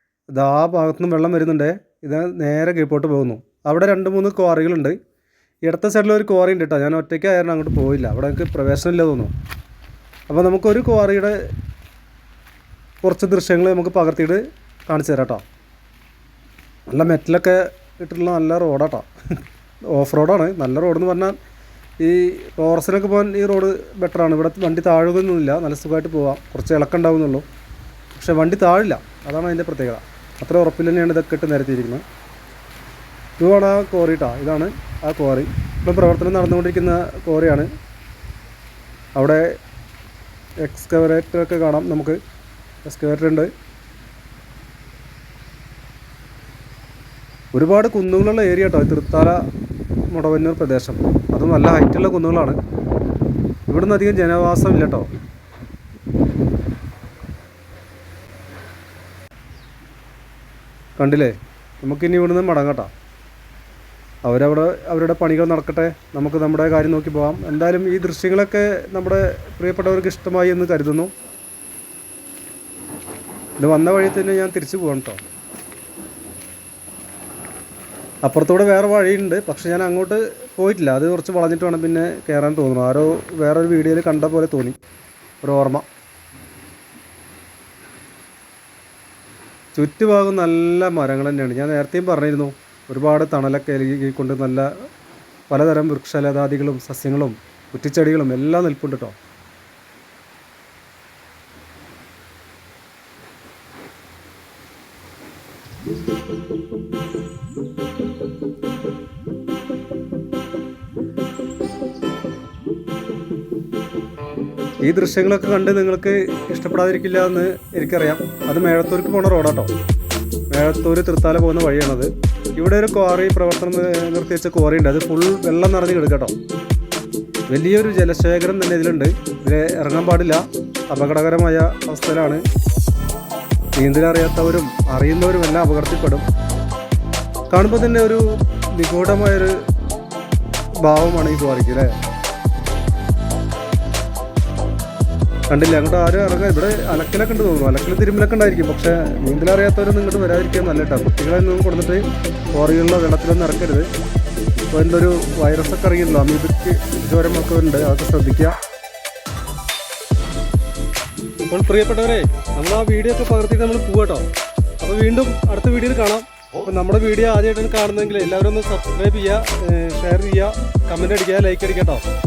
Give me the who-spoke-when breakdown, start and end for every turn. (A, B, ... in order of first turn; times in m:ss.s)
0:00.3-0:05.0 A
0:05.6-0:09.3 A
0:10.3-0:11.4 A
0:13.0-0:15.4 A
0:16.9-0:19.1 A
0:19.9-0:21.4 A
0:22.0-0:27.4 A
0:28.2-0:32.0 A
0:33.4-0:37.7 A
0:39.2-0:39.4 A
0:40.6-0:42.2 A
0:42.8-0:43.5 A
0:47.6-0:49.4 A
0:50.1-0:52.6 A
0:53.7-0:55.1 A
1:01.0-1:02.9 A
1:04.2-1:11.1 A
1:13.6-1:15.2 A
1:18.2-1:24.8 A
1:25.4-1:25.8 A
1:29.8-1:34.7 A
1:35.5-1:39.2 A
1:54.8-1:59.7 A
2:00.5-2:06.3 A
2:07.5-2:12.4 A
2:13.8-2:16.3 A
2:17.5-2:19.5 A
2:20.8-2:21.9 A
2:25.5-2:33.9 A
2:34.6-2:38.6 A
2:41.4-2:44.3 A
2:44.8-2:52.0 A